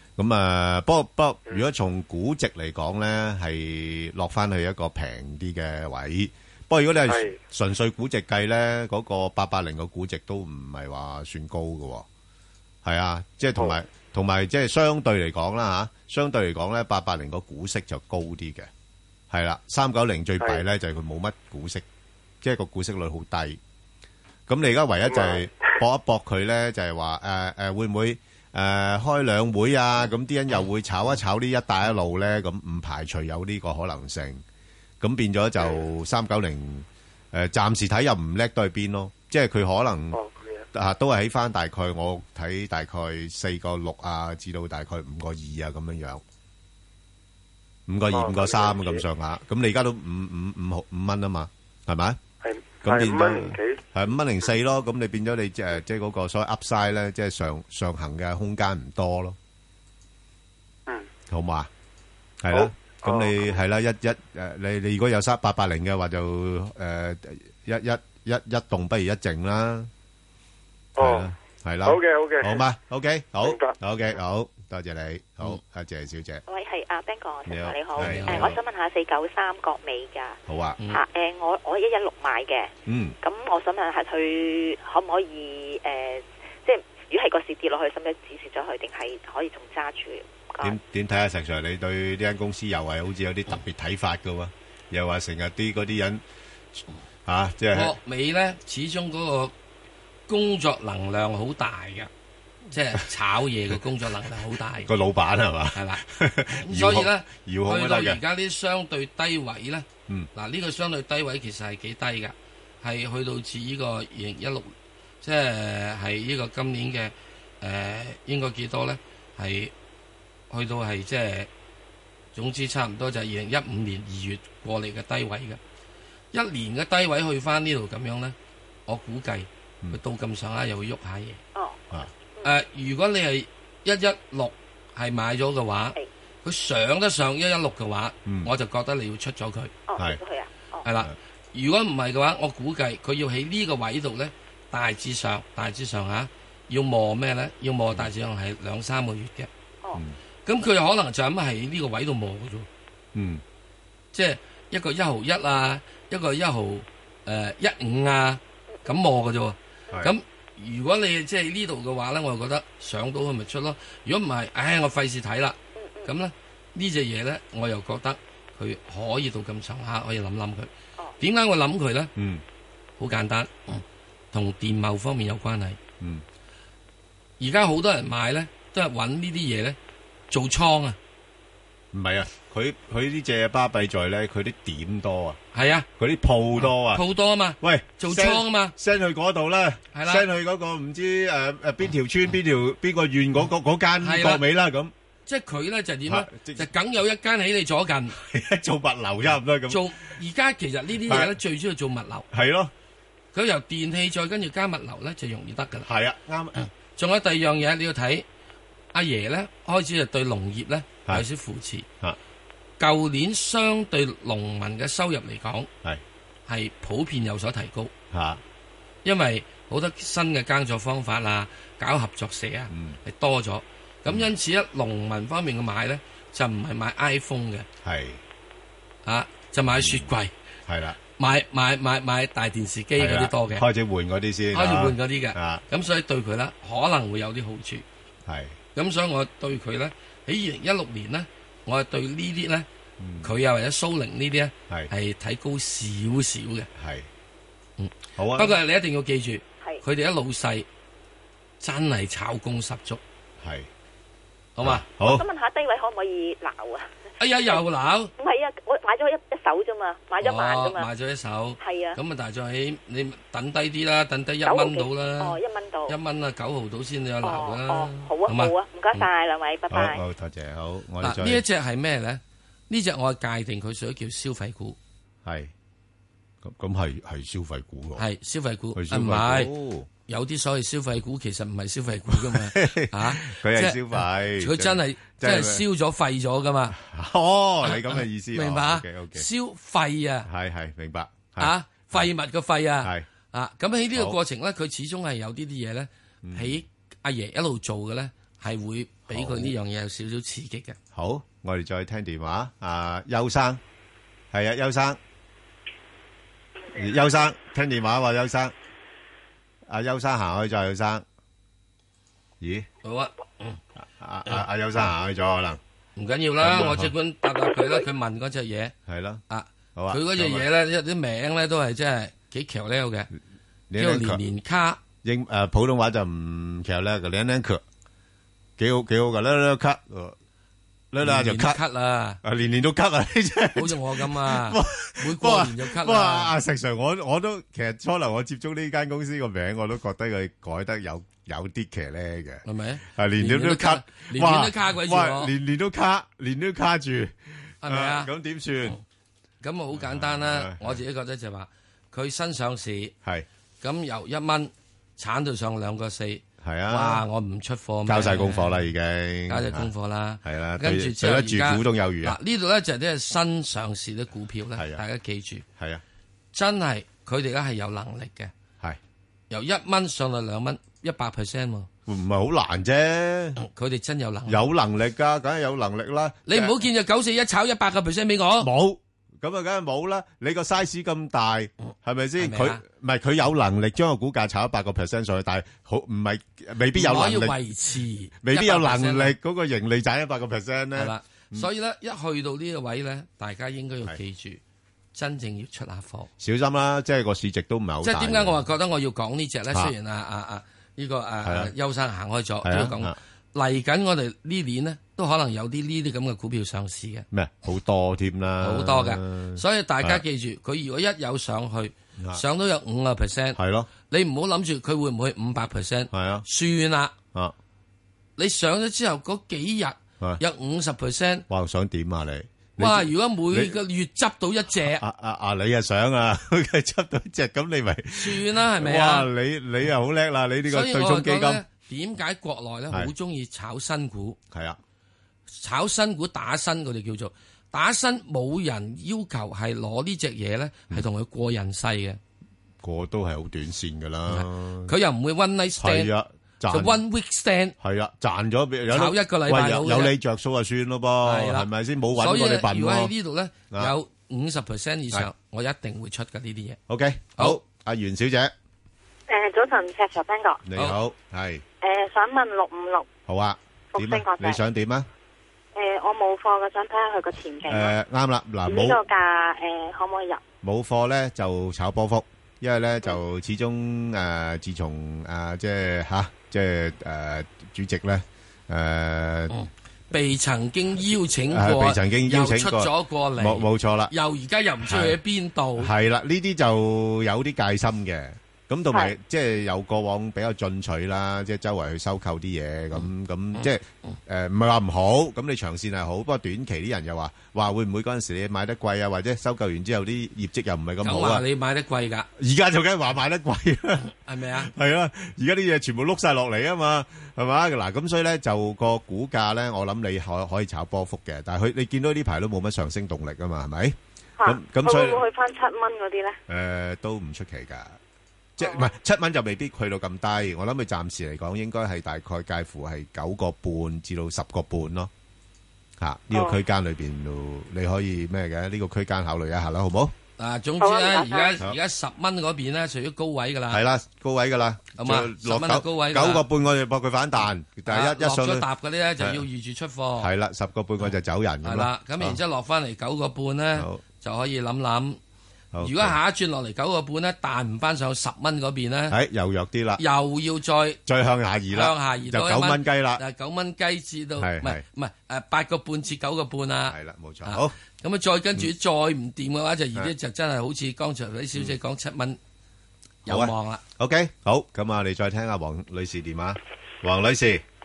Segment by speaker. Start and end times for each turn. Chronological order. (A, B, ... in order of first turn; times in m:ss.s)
0:00.2-0:12.0 A
0:07.1-0:07.4 B
0:12.8-0:18.7 A
0:19.3-0:21.8 A
0:22.4-0:23.6 A
0:24.5-0:34.4 A
0:25.1-0:25.4 B
0:35.0-0:40.2 A
0:40.1-0:40.6 B
0:40.7-0:46.2 A
0:47.9-0:52.2 A
0:48.1-0:49.0 B
0:52.4-0:53.8 B
0:52.8-0:59.4 A
1:01.3-1:01.7 A
1:02.4-1:09.9 A
1:02.5-1:03.5 B
1:11.0-1:11.3 B
1:11.0-1:16.4 A
1:11.8-1:12.6 B
1:13.4-1:13.8 B
1:16.5-1:20.4 C
1:17.5-1:18.6 A
1:18.0-1:18.5 D
1:20.5-1:20.8 A
1:20.9-1:22.7 C
1:22.9-1:23.1 A
1:23.2-1:30.8 C
1:30.6-1:36.2 A
1:36.7-1:37.9 A
1:37.7-1:39.5 D
1:40.3-1:42.1 D
1:42.7-1:44.9 D
1:44.8-1:48.2 A
1:45.7-1:46.0 D
1:46.6-1:59.7 D
2:00.5-2:01.5 D
2:02.3-2:05.6 D
2:06.3-2:08.4 D
2:08.9-2:11.4 D
2:11.5-2:12.5 C
2:12.4-2:19.7 D
2:19.8-2:20.8 C
2:20.8-2:29.5 D
2:30.4-2:32.7 D
2:33.1-2:33.4 A
2:34.1-2:52.1 D
2:45.7-2:46.1 C
2:52.2-2:52.4 A
2:53.0-2:55.8 D
2:57.4-2:59.8 D
3:00.3-3:01.0 D
3:01.9-3:05.4 A
3:05.5-3:05.9 D
3:06.0-3:07.0 A
3:06.6-3:08.7 D
3:07.6-3:14.9 A
3:09.9-3:10.2 D
3:14.0-3:14.4 D
3:15.3-3:18.1 D
3:16.1-3:16.7 A
3:18.2-3:19.8 A
3:19.7-3:22.3 D
3:21.1-3:21.3 A
3:22.3-3:22.7 A
3:23.3-3:25.9 D
3:25.8-3:26.6 A
3:27.0-3:28.2 D
3:28.9-3:31.9 D
3:32.8-3:35.7 D
3:36.5-3:37.9 D
3:38.1-3:38.4 A
3:39.0-3:47.6 D
3:42.7-3:43.0 A
3:47.8-3:48.2 A
3:49.0-3:50.3 D
3:49.7-3:50.1 A
3:50.7-3:51.0 A
3:51.2-3:53.6 D
3:53.0-3:55.6 A
3:54.5-3:57.8 D
3:58.3-3:58.6 A
3:58.7-4:02.7 D
4:03.0-4:03.3 A
4:03.2-4:06.7 D
4:06.8-4:07.1 A
4:07.8-4:10.7 D
4:08.2-4:08.5 A
4:11.6-4:13.0 D
4:13.4-4:13.7 A
4:14.6-4:14.8 D
4:14.6-4:15.2 A
4:15.0-4:17.6 C
4:17.2-4:18.1 D
4:18.2-4:20.9 C
4:20.2-4:29.0 D
4:21.6-4:22.0 C
4:24.4-4:26.0 C
4:27.2-4:30.0 C
4:29.7-4:31.4 A
4:31.0-4:34.8 D
4:35.2-4:35.5 A
4:36.4-4:38.0 A
4:38.0-4:39.5 D
4:38.8-4:39.9 A
4:40.1-4:46.7 D
4:42.1-4:45.6 A
4:46.7-4:49.2 A
4:47.6-4:50.3 D
4:50.2-4:52.1 A
4:51.4-5:00.8 D
4:56.2-4:56.6 A
4:59.1-4:59.5 A
5:00.9-5:03.6 A
5:04.3-5:05.0 A
5:06.7-5:08.5 A
5:09.7-5:11.0 A
5:12.4-5:12.7 A
5:12.8-5:13.6 D
5:14.0-5:15.6 A
5:16.0-5:18.7 D
5:16.4-5:16.9 A
5:18.9-5:19.2 A
5:19.3-5:23.1 D
5:19.8-5:20.4 A
5:23.7-5:24.2 A
5:23.8-5:24.8 D
5:25.0-5:27.6 A
5:28.6-5:30.1 A
5:30.9-5:31.6 A
5:31.0-5:32.2 D
5:32.2-5:42.4 A
5:33.6-5:36.3 D
5:42.4-5:45.3 D
5:42.9-5:48.8 A
5:47.6-5:48.1 D
5:49.4-5:52.9 D
5:49.8-5:50.8 A
5:53.6-5:58.7 D
5:56.4-5:57.0 A
5:57.9-5:59.7 A
5:59.3-6:05.4 D
6:00.2-6:02.2 A
6:04.6-6:04.8 A
6:06.3-6:08.3 D
6:09.3-6:11.7 D
6:11.9-6:13.4 A
6:13.4-6:14.4 D
6:14.3-6:16.5 A
6:16.3-6:18.5 D
6:18.4-6:27.4 A
6:22.2-6:22.6 D
6:26.7-6:29.1 D
6:28.2-6:31.5 A
6:30.8-6:34.4 D
6:34.9-6:36.1 D
6:36.2-6:38.4 A
6:37.8-6:47.0 D
6:41.2-6:41.5 A
6:42.4-6:42.9 A
6:47.1-6:50.0 A
6:48.4-6:56.9 D
6:53.4-6:53.7 A
6:55.9-6:56.2 A
6:58.2-7:01.2 D
7:01.3-7:03.5 A
7:02.6-7:04.8 D
7:04.8-7:11.4 A
7:07.9-7:09.1 D
7:10.5-7:14.2 D
7:14.3-7:14.6 A
7:15.3-7:22.0 D
7:22.6-7:24.7 A
7:24.1-7:25.9 D
7:25.6-7:26.8 A
7:26.5-7:27.5 D
7:27.6-7:32.9 A
7:28.7-7:29.9 D
7:31.0-7:36.6 D
7:36.7-7:38.3 A
7:39.1-7:40.4 E
7:40.4-7:41.4 A
7:41.6-7:42.9 E
7:43.1-7:44.9 A
7:43.7-7:44.4 E
7:45.5-7:47.7 E
7:47.5-7:48.8 A
7:48.5-7:50.2 E
7:50.4-7:59.3 A
7:59.3-8:05.7 D
8:01.3-8:03.9 A
8:04.6-8:05.0 A
8:05.6-8:21.2 A
8:20.8-8:22.1 D
8:22.2-8:35.0 A
8:24.0-8:24.5 D
8:34.2-8:36.2 E
8:36.3-8:37.8 A
8:38.4-8:44.9 A
8:38.4-8:38.7 E
8:45.8-8:49.9 A
8:50.2-8:53.6 D
8:50.6-8:51.4 E
8:53.5-8:58.4 A
8:54.8-8:56.2 D
8:57.6-9:00.1 D
9:00.0-9:02.2 A
9:01.4-9:05.0 D
9:03.6-9:03.8 A
9:05.5-9:06.0 A
9:05.6-9:09.0 D
9:08.9-9:09.8 A
9:09.8-9:10.8 D
9:10.9-9:13.0 A
9:11.5-9:16.7 D
9:14.2-9:14.6 A
9:16.7-9:17.5 A
9:17.2-9:22.2 D
9:23.0-9:23.6 D
9:23.1-9:27.4 A